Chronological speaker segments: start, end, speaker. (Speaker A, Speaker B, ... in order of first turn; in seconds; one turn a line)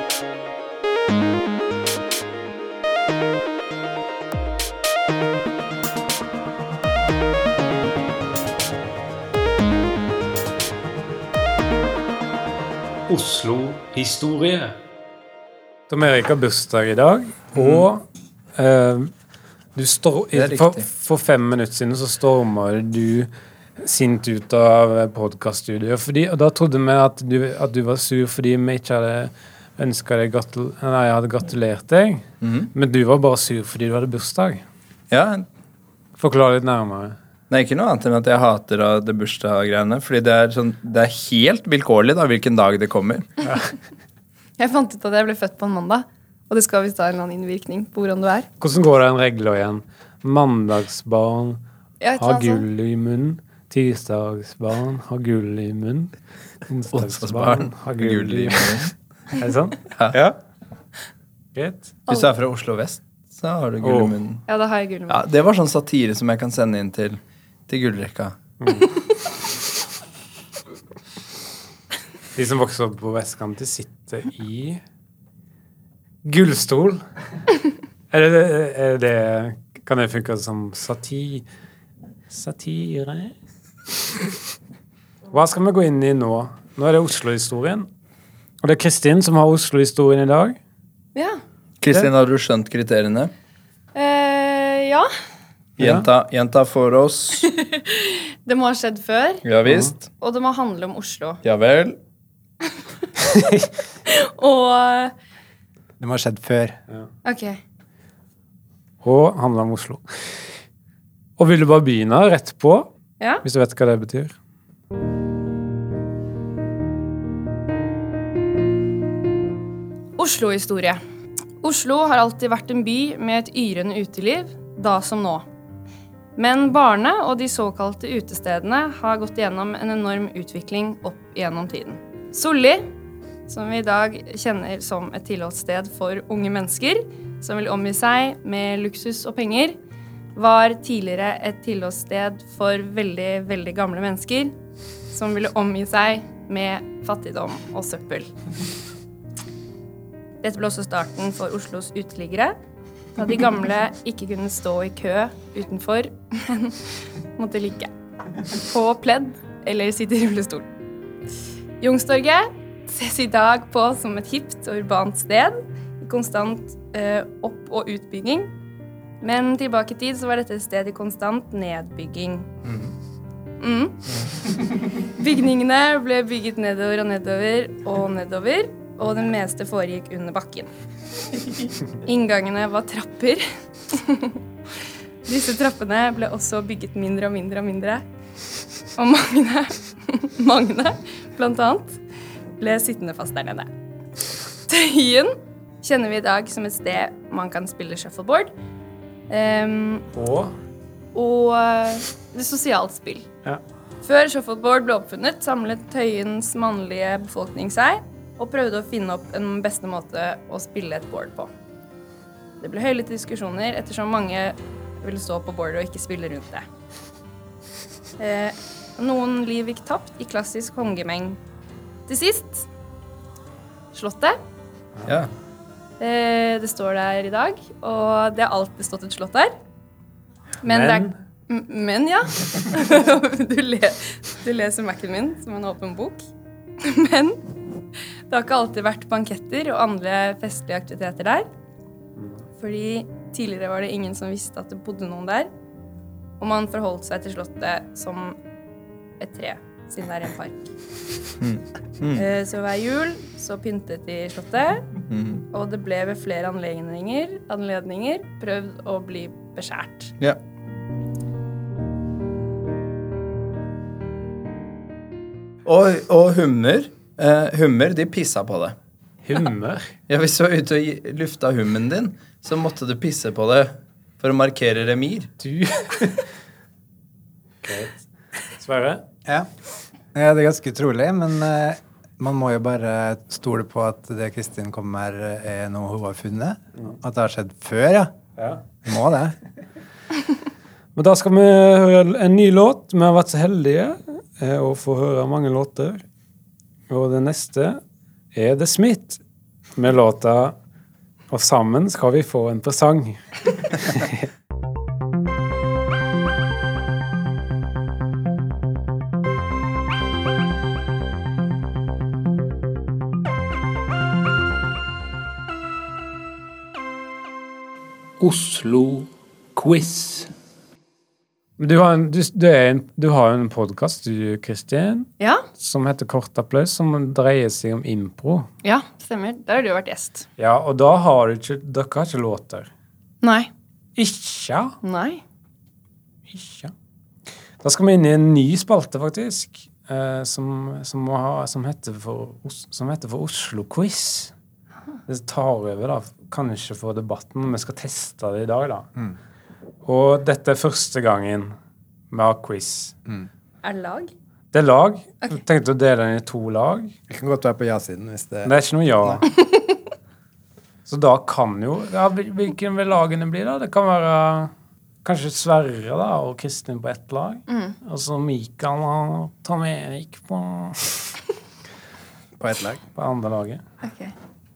Speaker A: 13.1-14.7
Speaker A: 15.9-19.1
Speaker B: 17.5-17.9
Speaker A: 19.8-34.6
Speaker B: 20.3-20.9
Speaker B: 32.4-32.7
Speaker B: 35.1-35.5
Speaker A: 36.2-37.1
Speaker B: 37.5-43.3
Speaker C: 44.6-48.5
Speaker A: 48.6-51.6
Speaker C: 52.0-52.6
Speaker A: 52.2-56.1
Speaker A: 56.7-59.8
Speaker B: 56.9-58.9
Speaker B: 59.9-60.1
Speaker A: 61.5-61.9
Speaker B: 62.1-64.4
Speaker A: 63.8-64.2
Speaker C: 64.5-65.2
Speaker B: 65.1-68.3
Speaker A: 68.6-68.9
Speaker A: 72.3-74.8
Speaker A: 76.2-77.0
Speaker A: 78.1-81.5
Speaker A: 82.3-83.3
Speaker A: 85.3-87.9
Speaker A: 88.6-90.6
Speaker B: 91.8-93.3
Speaker C: 93.9-95.1
Speaker A: 95.8-96.0
Speaker B: 95.8-97.5
Speaker C: 97.4-99.4
Speaker B: 99.4-100.0
Speaker A: 99.7-99.9
Speaker C: 100.1-101.4
Speaker B: 101.4-102.0
Speaker A: 103.2-103.7
Speaker C: 104.0-105.1
Speaker D: 106.0-106.8
Speaker C: 107.2-107.6
Speaker A: 109.0-110.3
Speaker A: 111.4-112.9
Speaker A: 113.4-114.3
Speaker C: 120.2-121.0
Speaker C: 121.6-125.4
Speaker C: 126.4-132.8
Speaker C: 133.5-139.8
Speaker C: 140.3-144.5
Speaker C: 145.1-148.3
Speaker C: 150.4-152.6
Speaker C: 153.2-157.9
Speaker C: 158.5-160.7
Speaker C: 161.8-168.5
Speaker C: 169.2-172.5
Speaker C: 173.6-174.1
Speaker C: 174.9-180.7
Speaker C: 182.0-184.4
Speaker C: 185.2-188.0
Speaker C: 188.9-192.0
Speaker C: 192.6-193.7
Speaker C: 194.7-198.5
Speaker C: 199.3-200.1
Speaker A: 200.1-200.5
Speaker C: 201.1-203.3
Speaker C: 204.0-211.5
Speaker C: 212.6-216.6
Speaker C: 218.2-221.4
Speaker C: 222.1-222.7
Speaker C: 223.9-224.4
Speaker C: 226.0-229.5
Speaker C: 230.6-236.2
Speaker A: 230.6-231.2
Speaker C: 236.8-237.5
Speaker C: 238.3-241.5
Speaker C: 242.6-245.5
Speaker C: 246.4-248.4
Speaker C: 249.2-250.7
Speaker B: 251.4-252.2
Speaker C: 252.2-254.9
Speaker B: 255.1-255.4
Speaker C: 255.5-260.1
Speaker B: 265.6-268.8
Speaker A: 269.2-269.9
Speaker B: 270.1-275.3
Speaker A: 275.4-276.3
Speaker A: 277.6-279.0
Speaker D: 280.1-288.1
Speaker A: 288.4-288.6
Speaker D: 288.8-289.3
Speaker A: 290.9-296.0
Speaker A: 296.9-297.8
Speaker A: 298.3-299.2
Speaker A: 299.7-300.6
Speaker A: 301.3-304.2
Speaker A: 318.2-319.0
Speaker A: 319.6-320.1
Speaker A: 321.6-328.5
Speaker C: 325.2-325.4
Speaker C: 328.6-330.2
Speaker A: 330.4-332.7
Speaker C: 333.2-333.5
Speaker A: 333.9-334.8
Speaker C: 334.8-335.2
Speaker A: 336.3-336.7
Speaker A: 337.6-344.3
Speaker A: 345.1-348.9
Speaker A: 349.8-351.5
Speaker A: 352.1-352.9
Speaker C: 353.6-354.1
Speaker A: 354.5-356.9
Speaker D: 357.1-359.2
Speaker A: 358.4-359.3
Speaker A: 360.9-364.5
Speaker A: 365.0-371.1
Speaker C: 367.5-367.8
Speaker D: 372.4-372.8
Speaker A: 372.9-373.6
Speaker C: 373.8-374.1